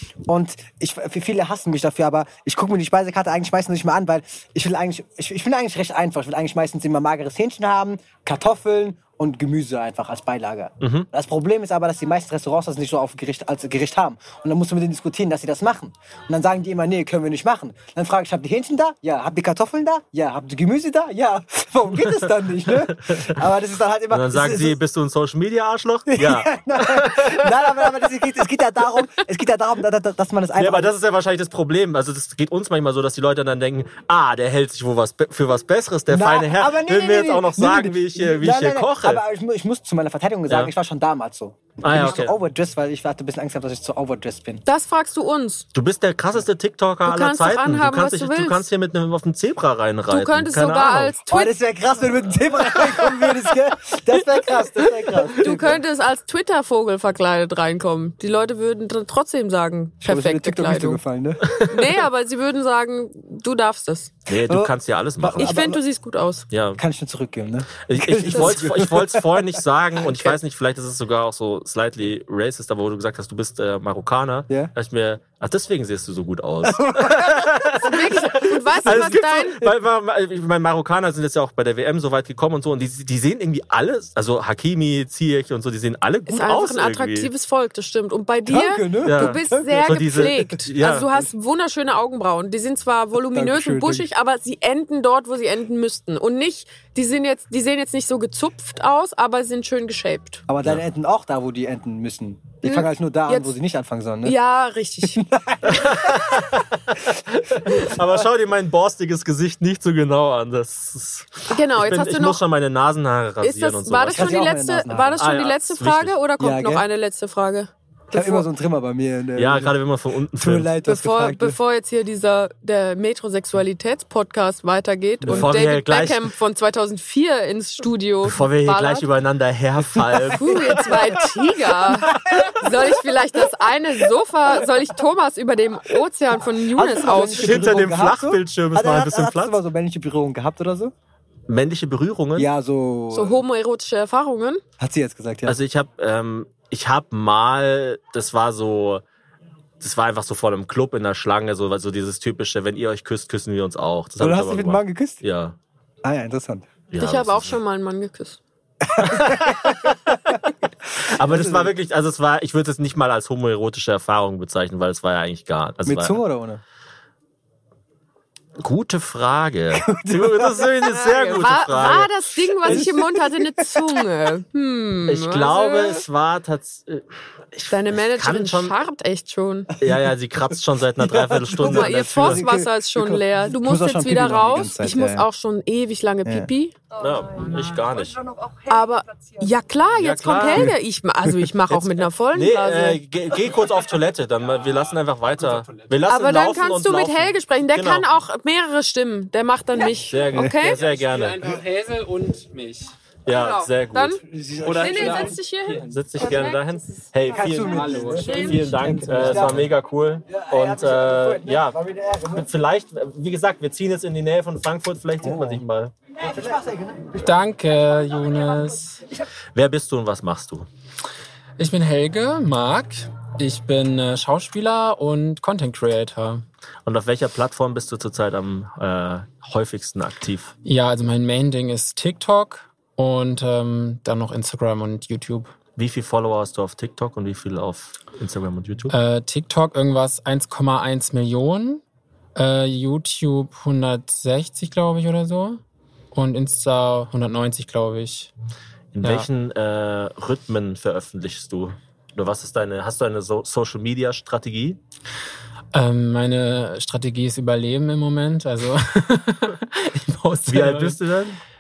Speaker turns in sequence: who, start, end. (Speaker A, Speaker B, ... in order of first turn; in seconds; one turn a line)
Speaker A: 0.3-24.8
Speaker B: 10.8-11.1
Speaker B: 22.7-23.3
Speaker B: 24.1-27.9
Speaker A: 26.1-30.9
Speaker B: 30.6-39.2
Speaker A: 36.1-44.6
Speaker B: 40.5-40.7
Speaker B: 41.8-42.4
Speaker C: 44.6-45.7
Speaker B: 45.7-51.2
Speaker C: 47.1-48.6
Speaker C: 50.1-51.5
Speaker A: 51.3-55.8
Speaker C: 55.4-61.0
Speaker A: 60.0-61.7
Speaker C: 61.6-64.1
Speaker B: 64.3-65.6
Speaker A: 64.5-65.8
Speaker C: 65.4-66.5
Speaker B: 66.5-66.8
Speaker A: 66.8-69.6
Speaker B: 67.9-87.3
Speaker C: 68.3-68.6
Speaker A: 76.6-77.7
Speaker C: 77.8-79.7
Speaker A: 78.9-79.2
Speaker C: 86.3-100.5
Speaker A: 88.5-90.3
Speaker B: 89.0-91.1
Speaker A: 93.3-94.1
Speaker A: 100.5-104.4
Speaker C: 102.6-103.5
Speaker C: 104.2-105.2
Speaker A: 105.0-106.4
Speaker B: 105.6-114.5
Speaker C: 111.5-112.4
Speaker C: 113.4-118.5
Speaker A: 114.1-115.3
Speaker B: 115.2-116.1
Speaker A: 116.4-116.8
Speaker A: 118.1-119.8
Speaker B: 119.4-120.7
Speaker A: 120.4-121.6
Speaker C: 120.8-129.1
Speaker A: 125.2-125.5
Speaker B: 125.3-126.2
Speaker B: 128.2-131.2
Speaker C: 130.3-137.7
Speaker B: 132.1-132.4
Speaker A: 132.1-132.6
Speaker A: 136.7-140.9
Speaker B: 137.4-139.6
Speaker B: 141.5-142.5
Speaker A: 142.4-143.4
Speaker C: 143.1-144.6
Speaker A: 144.8-145.6
Speaker B: 145.4-149.0
Speaker B: 149.8-155.6
Speaker A: 154.2-155.2
Speaker A: 156.0-156.7
Speaker B: 156.9-157.6
Speaker C: 157.0-158.4
Speaker A: 158.8-160.4
Speaker B: 159.0-160.2
Speaker B: 161.0-166.2
Speaker A: 161.1-161.7
Speaker A: 165.8-166.6
Speaker B: 168.6-172.1
Speaker A: 169.8-170.8
Speaker C: 170.9-176.0
Speaker A: 172.6-173.8
Speaker B: 172.6-172.9
Speaker B: 175.1-178.8
Speaker C: 177.7-179.8
Speaker B: 179.8-182.5
Speaker A: 181.0-185.3
Speaker C: 181.6-186.8
Speaker B: 187.0-188.2
Speaker C: 188.7-193.0
Speaker B: 190.0-190.8
Speaker B: 191.7-198.1
Speaker D: 195.4-195.9
Speaker C: 196.1-200.8
Speaker B: 200.1-201.4
Speaker D: 200.7-202.9
Speaker B: 203.3-204.2
Speaker C: 203.3-204.2
Speaker A: 204.3-205.3
Speaker D: 204.6-206.1
Speaker C: 204.8-206.9
Speaker B: 205.9-215.9
Speaker A: 207.3-208.3
Speaker D: 207.4-209.7
Speaker C: 208.1-208.8
Speaker A: 209.0-209.6
Speaker A: 210.3-212.5
Speaker A: 215.2-215.6
Speaker A: 216.2-217.2
Speaker D: 217.2-219.0
Speaker B: 219.6-220.7
Speaker D: 221.6-226.4
Speaker B: 226.9-230.5
Speaker D: 230.6-235.5
Speaker B: 235.8-238.9
Speaker D: 238.9-241.8
Speaker D: 242.4-245.6
Speaker D: 246.1-248.3
Speaker B: 248.9-254.8
Speaker D: 255.7-261.0
Speaker B: 260.5-261.4